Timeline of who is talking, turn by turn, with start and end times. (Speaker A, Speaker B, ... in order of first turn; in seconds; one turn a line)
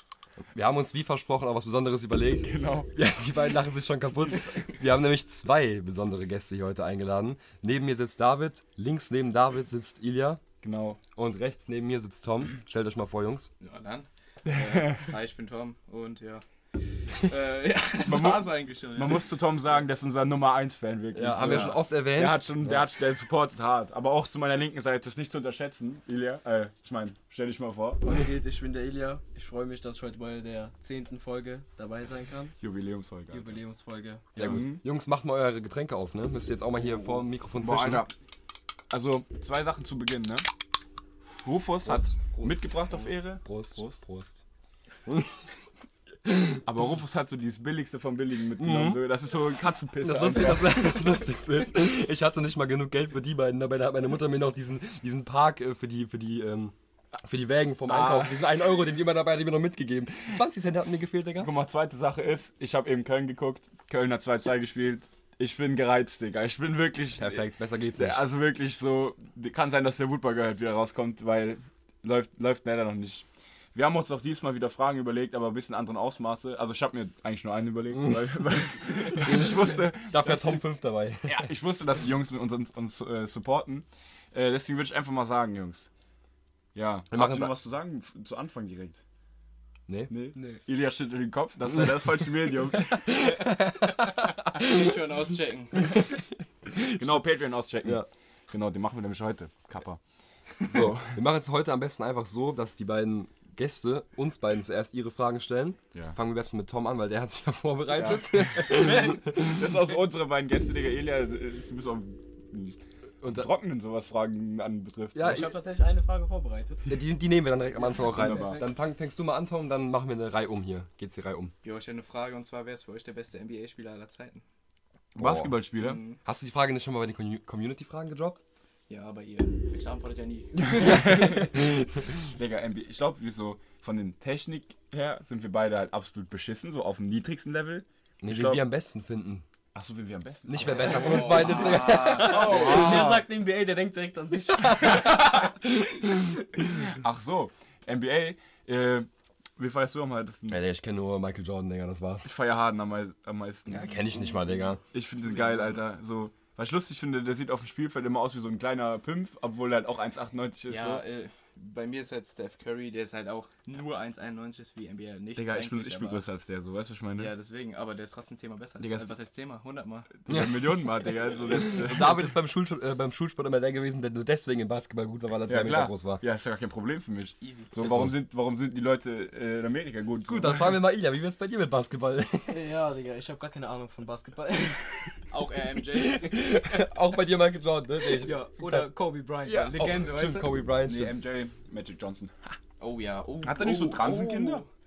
Speaker A: 0.5-10.4
Speaker B: 2.4-2.9
Speaker B: 10.6-11.0
Speaker A: 11.2-13.5
Speaker C: 13.6-16.4
Speaker B: 14.4-15.1
Speaker C: 17.1-19.2
Speaker B: 18.0-28.0
Speaker A: 21.1-22.9
Speaker D: 28.0-32.5
Speaker B: 32.6-33.6
Speaker D: 33.3-34.4
Speaker B: 34.4-34.8
Speaker A: 34.4-38.0
Speaker B: 37.5-38.1
Speaker B: 38.9-40.5
Speaker B: 41.4-44.0
Speaker A: 42.1-42.8
Speaker A: 43.3-44.4
Speaker A: 45.0-45.4
Speaker A: 46.2-46.6
Speaker B: 46.6-51.0
Speaker A: 48.6-49.0
Speaker A: 50.0-61.5
Speaker B: 57.9-58.4
Speaker B: 61.4-67.4
Speaker A: 67.2-68.2
Speaker B: 67.9-80.6
Speaker A: 79.2-81.5
Speaker B: 81.2-85.9
Speaker B: 86.7-89.0
Speaker A: 87.1-87.5
Speaker B: 90.1-93.1
Speaker A: 93.0-93.9
Speaker A: 94.5-94.9
Speaker C: 94.5-96.0
Speaker A: 96.7-97.0
Speaker B: 96.8-100.0
Speaker B: 100.6-101.2
Speaker A: 100.7-109.6
Speaker B: 107.9-115.4
Speaker C: 108.6-109.3
Speaker A: 113.2-113.5
Speaker A: 115.1-115.5
Speaker D: 115.2-117.0
Speaker A: 116.9-121.5
Speaker B: 118.0-118.6
Speaker D: 118.0-118.6
Speaker C: 121.6-124.4
Speaker B: 125.1-126.0
Speaker A: 125.2-125.6
Speaker C: 125.8-126.2
Speaker A: 126.2-128.4
Speaker C: 128.9-131.4
Speaker B: 130.6-138.6
Speaker A: 130.8-131.9
Speaker A: 138.2-139.4
Speaker B: 139.7-143.2
Speaker A: 140.5-142.9
Speaker C: 140.6-142.8
Speaker D: 141.3-145.6
Speaker B: 146.8-150.6
Speaker A: 150.5-152.3
Speaker B: 152.2-153.9
Speaker A: 153.7-154.8
Speaker B: 154.9-161.0
Speaker C: 160.7-166.2
Speaker B: 165.3-167.3
Speaker C: 167.2-170.1
Speaker B: 168.8-169.1
Speaker B: 170.2-172.3
Speaker A: 170.3-170.8
Speaker A: 171.6-176.2
Speaker B: 175.5-180.7
Speaker C: 177.4-177.7
Speaker A: 177.8-178.1
Speaker A: 180.3-182.7
Speaker D: 182.5-185.1
Speaker C: 185.3-186.4
Speaker A: 185.9-188.9
Speaker C: 188.2-190.5
Speaker A: 189.4-191.2
Speaker B: 190.8-192.6
Speaker C: 192.8-194.7
Speaker B: 193.4-194.6